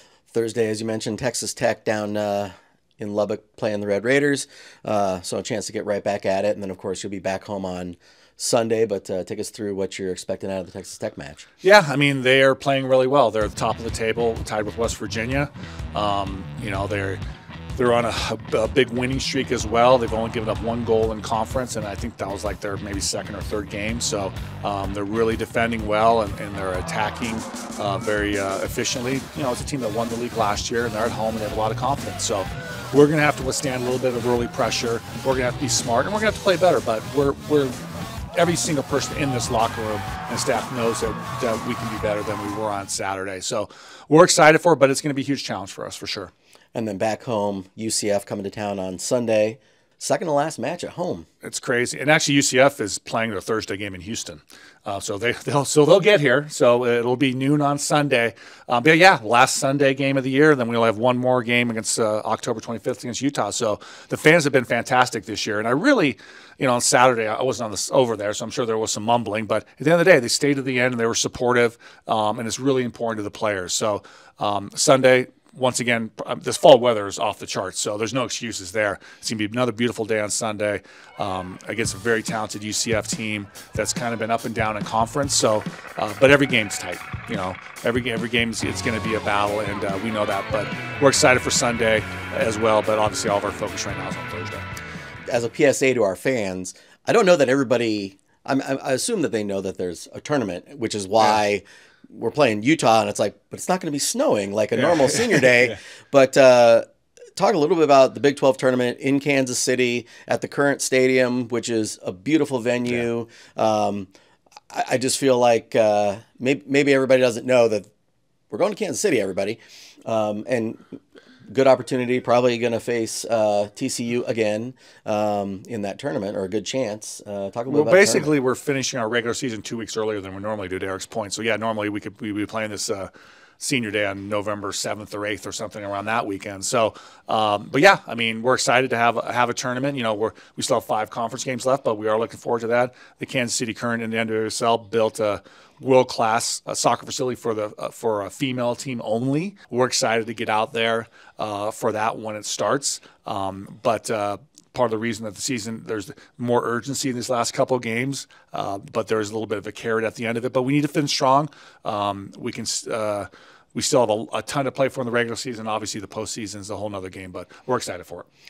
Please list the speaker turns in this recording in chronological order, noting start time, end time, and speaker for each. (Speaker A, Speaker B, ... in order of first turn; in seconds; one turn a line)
Speaker A: 0.3-11.5
Speaker B: 11.6-17.2
Speaker B: 17.8-37.8
Speaker B: 38.3-46.3
Speaker A: 46.8-51.3
Speaker B: 51.4-94.7
Speaker A: 95.3-106.8
Speaker B: 104.9-105.5
Speaker A: 107.4-114.1
Speaker A: 114.7-117.9
Speaker A: 118.5-121.0
Speaker A: 121.5-128.3
Speaker B: 127.7-168.3